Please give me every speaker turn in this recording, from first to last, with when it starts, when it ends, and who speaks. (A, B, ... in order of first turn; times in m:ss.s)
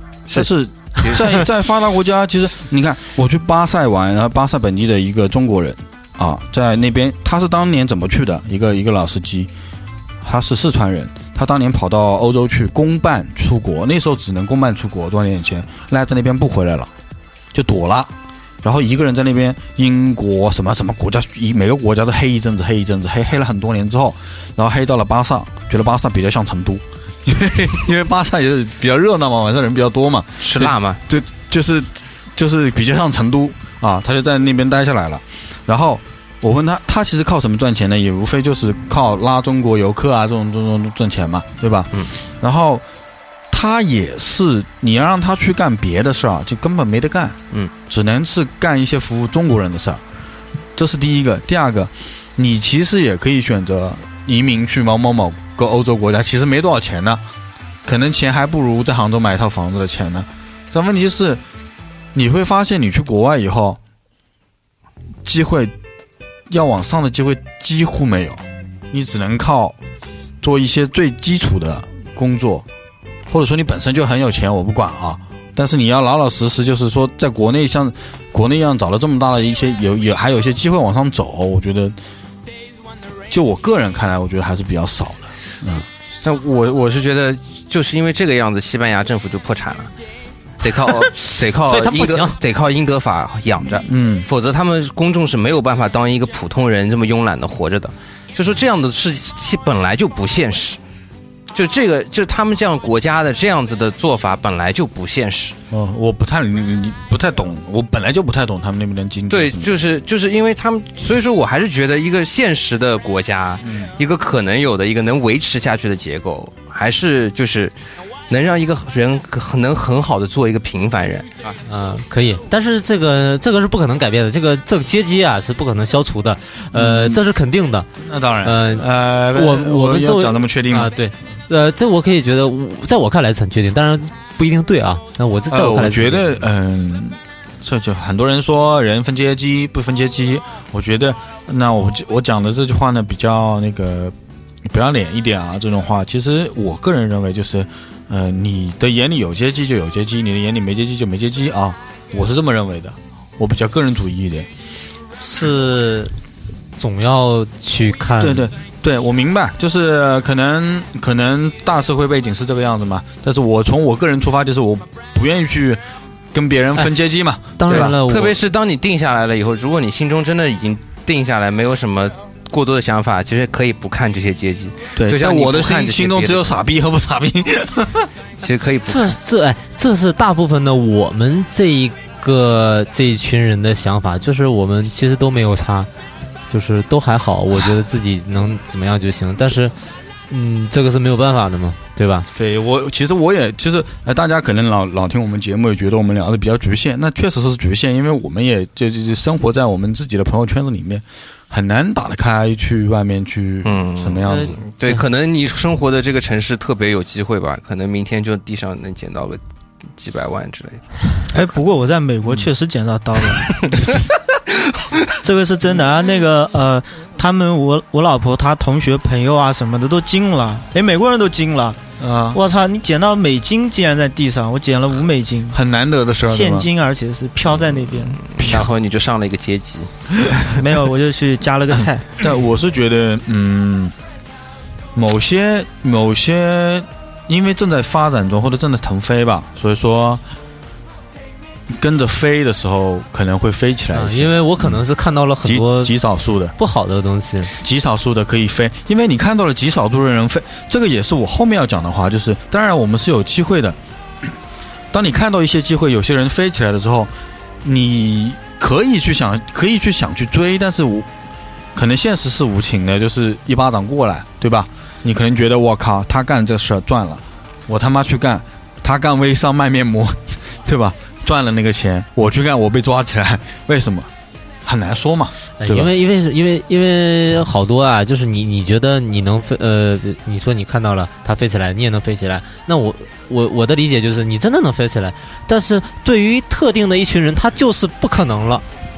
0:00.3-0:09.5 A
0:00.3-0:01.4 B
0:10.2-0:16.9 A
0:17.5-0:18.1 A
0:18.6-0:42.8 A
0:30.4-0:31.0 B
0:43.5-0:50.0 A
0:50.8-0:57.2 A
0:57.8-1:01.4 A
1:02.1-1:03.8 A
1:05.2-1:05.7 A
1:06.5-1:09.8 A
1:10.4-1:12.6 A
1:13.3-1:22.0 A
1:23.3-1:25.8 A
1:26.2-1:29.9 B
1:30.6-1:40.8 B
1:30.8-1:32.4 C
1:33.8-1:34.2 A
1:41.5-1:45.6 B
1:45.7-1:49.8 A
1:49.3-1:57.7 B
1:53.6-1:53.9 A
1:58.3-2:01.5 B
2:01.6-2:07.9 C
2:06.7-2:07.2 A
2:08.0-2:10.9 A
2:08.4-2:16.4 C
2:15.5-2:34.5 A
2:35.1-2:36.1 C
2:36.8-2:38.4 C
2:38.2-2:45.8 A
2:46.3-2:47.9 A
2:47.6-2:48.4 C
2:47.7-2:56.5 B
2:55.0-2:58.1 A
2:58.4-2:59.2 B
2:58.9-3:05.9 C
3:06.5-3:09.7 C
3:10.3-3:12.3 C
3:12.3-3:24.6 A
3:23.6-3:29.4 B
3:24.3-3:25.0 C
3:30.0-3:30.9 B
3:31.3-3:34.1 D
3:35.2-3:41.8 D
3:42.0-3:42.4 A
3:42.3-3:45.6 D
3:45.5-3:46.7 A
3:46.3-3:48.2 D
3:48.2-3:49.9 B
3:48.4-3:48.7 A
3:50.5-3:52.1 D
3:52.2-3:53.9 A
3:54.9-4:00.2 A
4:01.7-4:04.8 A
4:03.9-4:05.9 C
4:05.4-4:06.5 A
4:06.6-4:07.5 C
4:07.6-4:14.3 A
4:14.9-4:17.1 A
4:17.6-4:21.1 A
4:21.7-4:34.1 A
4:34.6-4:35.9 A
4:35.6-4:48.6 C